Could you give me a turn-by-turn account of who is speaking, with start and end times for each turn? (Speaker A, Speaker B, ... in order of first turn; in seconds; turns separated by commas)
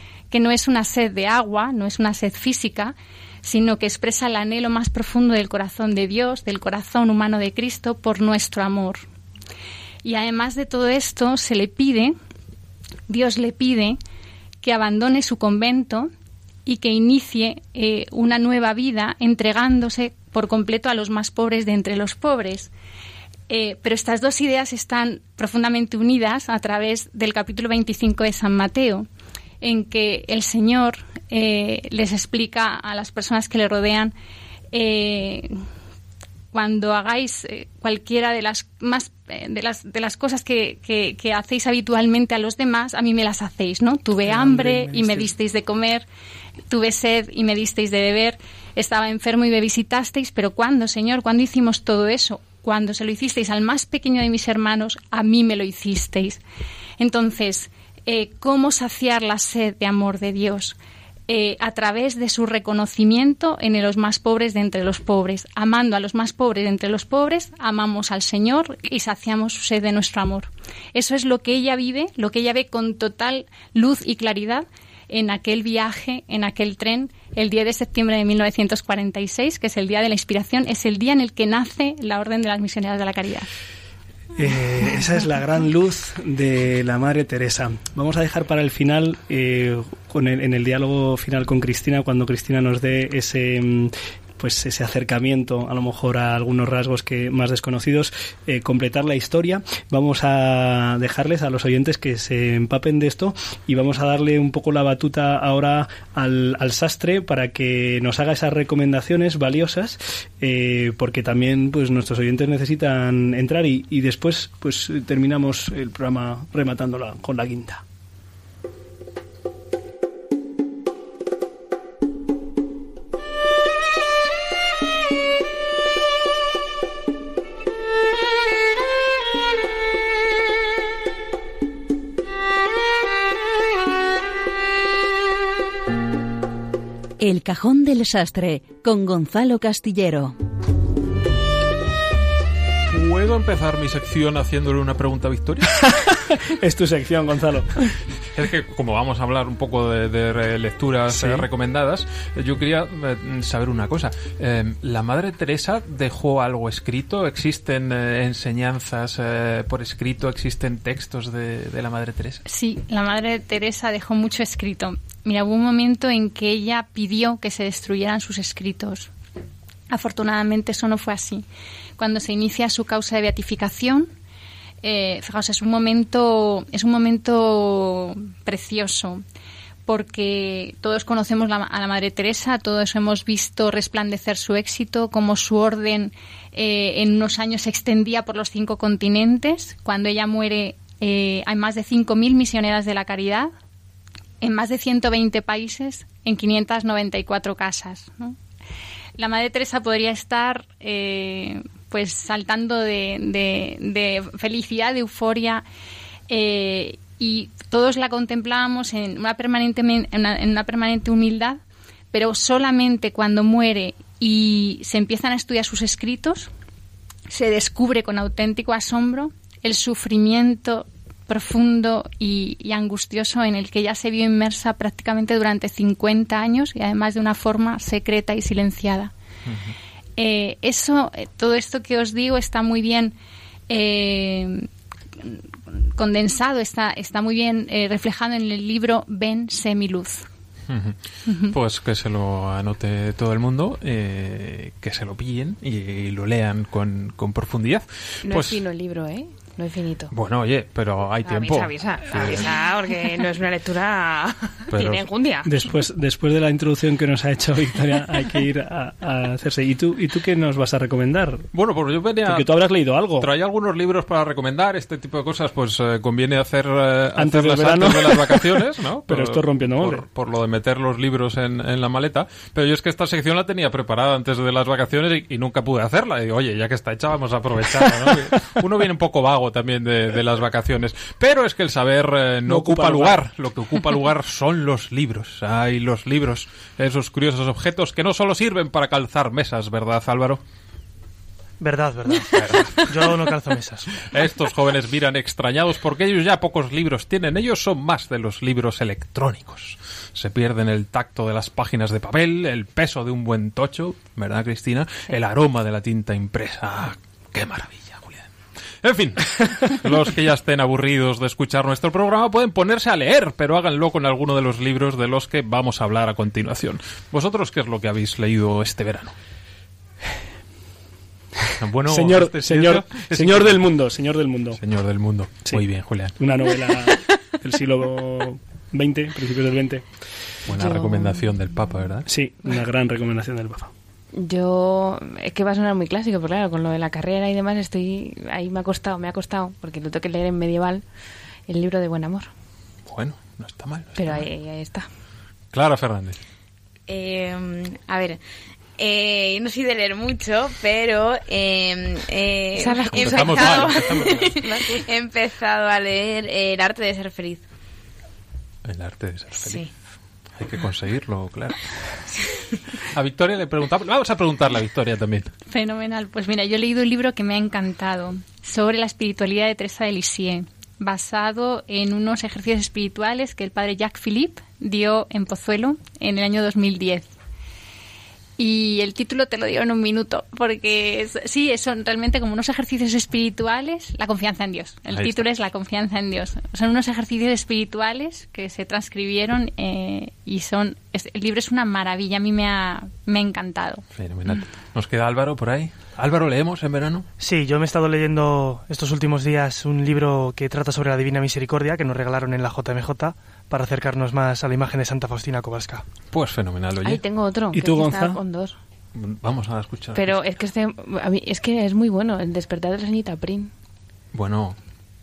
Speaker A: 0.3-9.0, Speaker A: 10.0-12.1, Speaker A: 13.1-14.0, Speaker A: 14.6-16.1, Speaker A: 16.6-22.7, Speaker A: 23.5-29.1, Speaker A: 29.6-34.1, Speaker A: 34.7-35.5, Speaker A: 36.5-46.1, Speaker B: 44.1-45.3, Speaker A: 46.7-56.4, Speaker A: 57.0-60.8, Speaker A: 61.3-83.5, Speaker B: 84.4-117.8, Speaker C: 137.2-140.3, Speaker D: 142.9-145.7, Speaker B: 145.8-147.9, Speaker D: 148.4-162.4, Speaker B: 151.1-151.5, Speaker A: 162.4-169.1, Speaker A: 169.9-171.4, Speaker A: 172.0-174.1, Speaker A: 174.8-179.2, Speaker A: 179.9-193.5, Speaker A: 194.4-198.4, Speaker A: 199.2-205.6, Speaker A: 206.3-211.6, Speaker A: 212.1-216.5, Speaker A: 217.3-229.1, Speaker D: 229.5-229.7, Speaker A: 230.2-233.1, Speaker A: 233.7-240.2, Speaker D: 240.7-248.6, Speaker E: 248.2-250.1, Speaker D: 250.1-252.5, Speaker E: 251.2-255.5, Speaker D: 254.7-255.0, Speaker B: 255.4-261.5, Speaker D: 261.5-262.5, Speaker B: 262.2-263.3, Speaker D: 263.2-290.4, Speaker B: 267.2-270.0, Speaker B: 282.4-283.2, Speaker F: 291.6-294.0, Speaker D: 292.3-292.8, Speaker D: 294.1-308.3, Speaker D: 308.8-319.1, Speaker D: 321.6-323.7, Speaker B: 321.9-324.6, Speaker D: 324.6-326.1, Speaker B: 326.2-329.8, Speaker D: 330.4-332.1, Speaker E: 330.6-331.2, Speaker B: 332.1-333.7, Speaker E: 334.1-340.8, Speaker E: 341.5-342.3, Speaker D: 342.9-344.3, Speaker E: 343.9-344.9, Speaker D: 345.5-346.2, Speaker G: 346.9-348.2, Speaker G: 348.8-357.4, Speaker E: 352.6-354.8, Speaker D: 352.9-354.3, Speaker D: 358.7-359.7, Speaker D: 360.4-361.6, Speaker D: 362.9-365.3, Speaker A: 365.5-377.1, Speaker A: 378.4-393.8, Speaker D: 384.9-385.2, Speaker D: 394.0-397.1, Speaker F: 397.2-405.8, Speaker D: 406.1-407.0, Speaker E: 406.8-408.6, Speaker B: 407.6-408.2, Speaker D: 408.9-410.2, Speaker E: 409.9-413.5, Speaker D: 414.1-414.6